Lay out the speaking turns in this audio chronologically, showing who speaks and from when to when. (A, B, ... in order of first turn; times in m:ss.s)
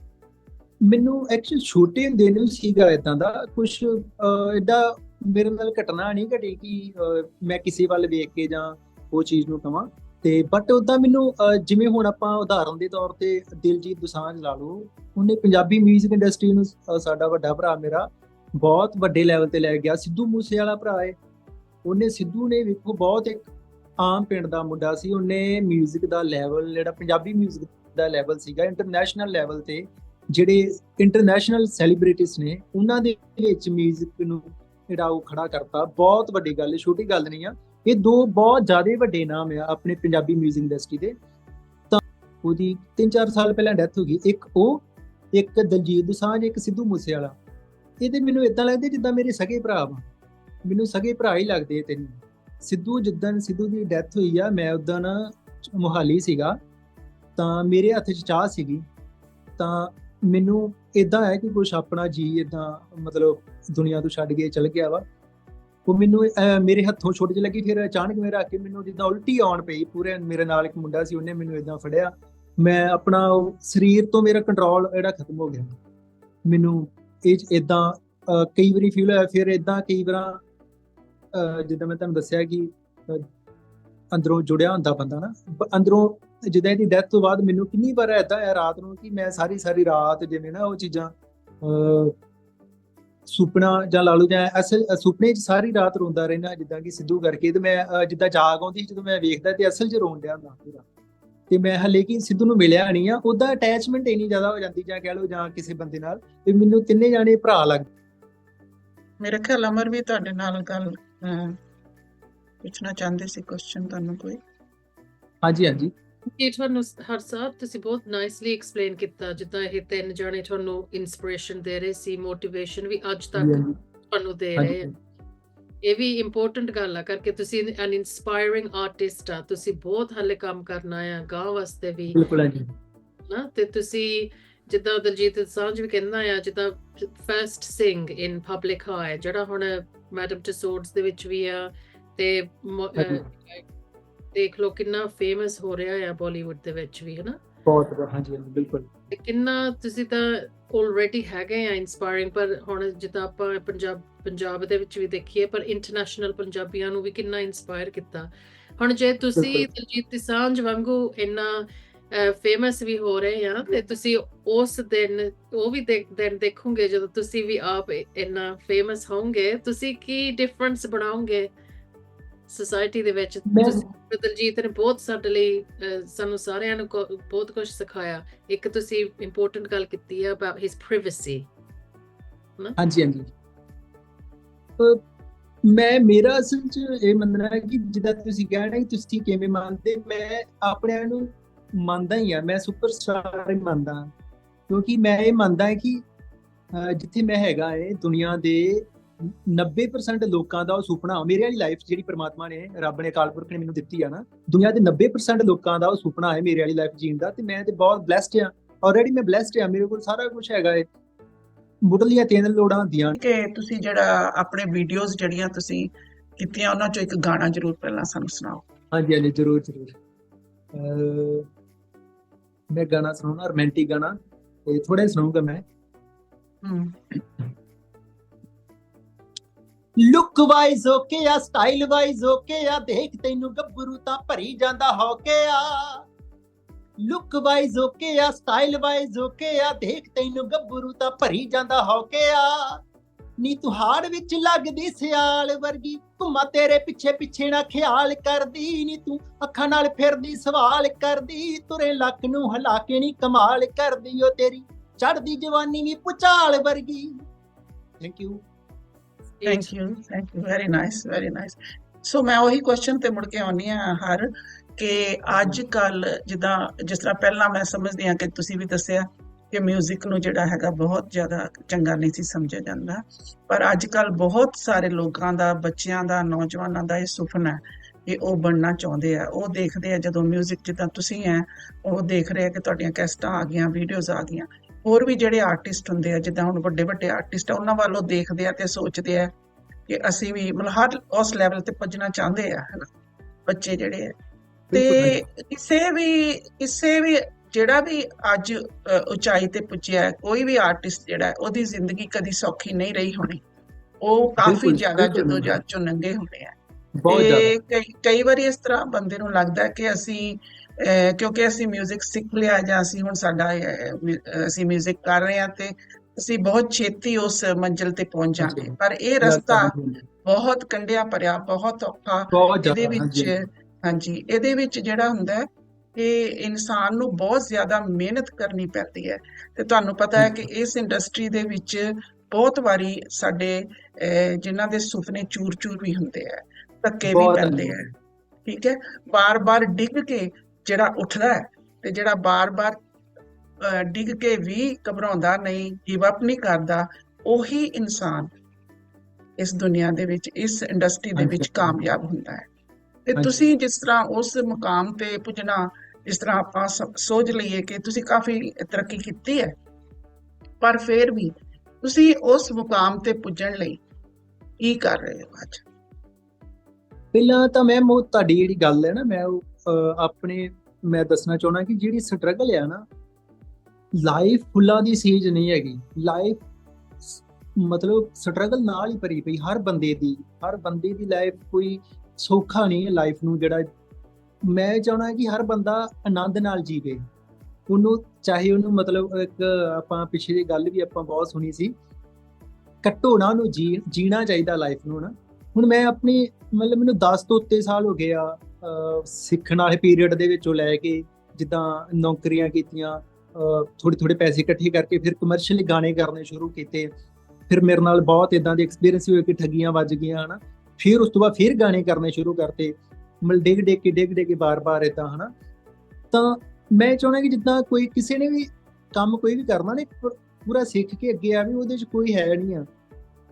0:00.8-0:21.2 A
0:21.8-0:23.4 A
0:24.0-0:41.2 A
0:41.9-0:47.4 A
0:48.0-0:50.1 A
0:50.6-0:56.6 A
0:57.4-0:58.8 A
0:59.6-1:05.0 A
1:05.8-1:15.7 A
1:16.5-1:20.4 A
1:21.3-1:23.3 A
1:24.1-1:32.2 A
1:33.3-1:40.8 A
1:41.5-1:47.9 A
1:49.2-1:51.6 B
1:52.6-1:54.4 B
1:55.4-1:55.9 A
1:56.3-2:04.9 C
2:03.4-2:03.8 A
2:04.6-2:04.9 A
2:05.8-2:12.2 C
2:12.1-2:12.7 A
2:13.3-2:23.6 C
2:23.0-2:23.2 A
2:24.3-2:27.4 C
2:27.6-2:29.1 A
2:29.1-2:51.5 C
2:39.4-2:39.7 A
2:52.5-3:01.5 C
2:53.5-2:53.8 A
3:02.8-3:03.3 A
3:04.8-3:05.0 A
3:05.6-3:14.1 A
3:14.7-3:16.0 A
3:16.7-3:30.9 A
3:31.8-3:33.2 A
3:33.2-3:38.6 B
3:38.9-3:40.0 A
3:40.7-3:41.5 A
3:42.7-3:45.6 A
3:46.6-3:47.2 B
3:50.0-3:56.1 A
3:57.0-4:02.8 A
4:03.4-4:17.2 A
4:18.0-4:18.4 A
4:19.4-4:19.7 C
4:19.4-4:49.3 B
4:25.3-4:25.6 A
4:49.9-4:52.9 B
4:53.5-4:54.1 B
4:54.7-4:55.2 A
4:54.7-5:03.4 B
5:04.0-5:06.5 B
5:04.4-5:05.6 A
5:07.0-5:07.6 A
5:07.1-5:19.7 B
5:18.4-5:20.0 A
5:20.2-5:37.9 B
5:22.3-5:23.4 A
5:30.2-5:30.4 A
5:37.0-5:37.9 A
5:38.4-5:42.8 B
5:43.6-5:48.3 B
5:49.4-5:52.5 B
5:51.2-5:51.9 A
5:53.1-5:59.5 B
5:53.2-5:53.5 A
6:00.6-6:03.8 B
6:04.6-6:05.6 B
6:07.1-6:12.8 A
6:14.0-6:16.4 A
6:17.0-6:23.7 A
6:24.4-6:27.0 A
6:27.7-6:31.7 A
6:32.8-6:46.9 A
6:47.5-6:55.3 A
6:56.1-7:02.7 A